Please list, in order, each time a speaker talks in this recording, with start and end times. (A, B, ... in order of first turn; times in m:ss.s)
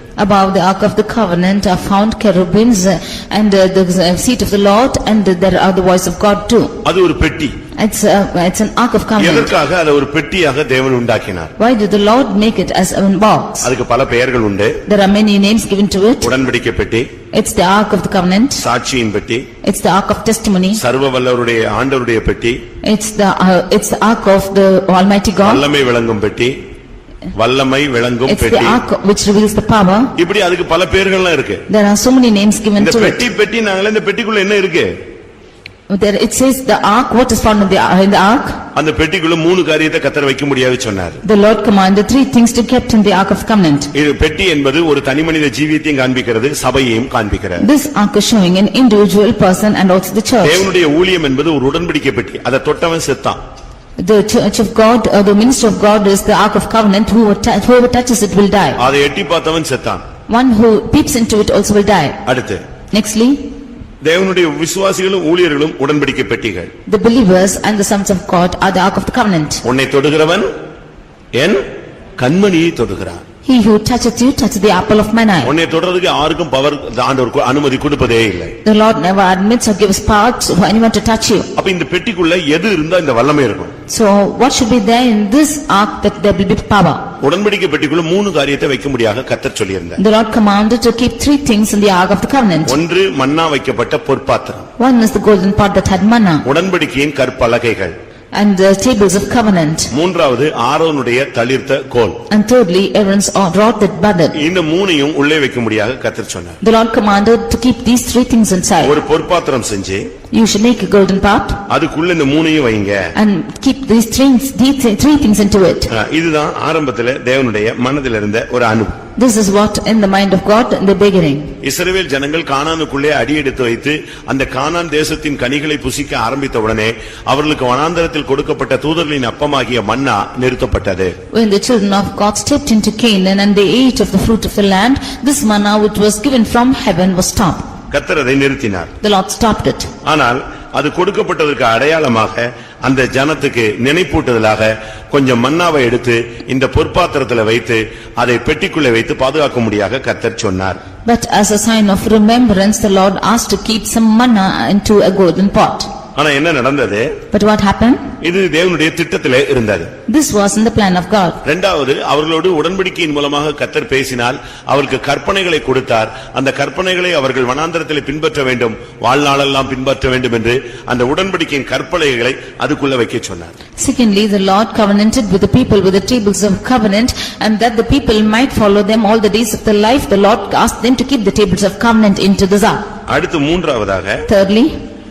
0:00.2-0:06.7 A
0:06.8-0:07.5 B
0:07.8-0:09.5 A
0:09.2-0:11.5 B
0:11.6-0:13.7 A
0:13.6-0:14.8 B
0:14.9-0:16.3 A
0:16.2-0:17.1 B
0:17.3-0:18.6 A
0:18.6-0:19.4 B
0:19.6-0:20.8 A
0:20.8-0:22.6 B
0:22.8-0:25.6 A
0:25.4-0:26.5 B
0:27.3-0:28.8 B
0:28.2-0:30.1 A
0:30.2-0:31.6 B
0:31.7-0:33.2 A
0:32.8-0:34.9 B
0:35.9-0:38.6 A
0:38.7-0:41.2 B
0:41.2-0:43.9 A
0:43.9-0:47.6 B
0:47.6-0:50.6 A
0:50.4-0:53.4 B
0:54.0-0:58.8 A
0:58.8-1:00.0 B
1:00.3-1:02.2 A
1:02.2-1:02.6 B
1:02.9-1:03.4 A
1:04.0-1:06.7 B
1:06.9-1:09.6 A
1:09.6-1:10.5 B
1:12.2-1:13.2 B
1:13.4-1:15.5 A
1:15.4-1:18.5 B
1:18.6-1:21.5 A
1:21.6-1:23.7 B
1:23.9-1:27.0 A
1:27.2-1:30.0 B
1:30.0-1:32.8 A
1:32.7-1:34.7 B
1:34.8-1:36.4 A
1:36.4-1:37.9 B
1:38.3-1:39.9 A
1:39.9-1:42.2 B
1:42.3-1:44.4 A
1:44.3-1:46.6 B
1:46.6-1:49.0 A
1:48.8-1:50.1 B
1:50.3-1:51.6 A
1:51.7-1:53.0 B
1:53.1-1:55.9 A
1:55.9-1:59.0 B
1:59.2-2:01.5 A
2:01.6-2:11.1 B
2:11.3-2:17.6 A
2:17.9-2:18.9 B
2:19.0-2:19.9 A
2:20.0-2:30.8 B
2:31.0-2:35.9 A
2:36.2-2:37.1 B
2:37.3-2:38.0 A
2:38.2-2:39.9 B
2:40.1-2:41.4 A
2:41.4-2:53.5 B
2:53.8-3:02.8 A
3:03.1-3:04.2 B
3:04.2-3:04.7 A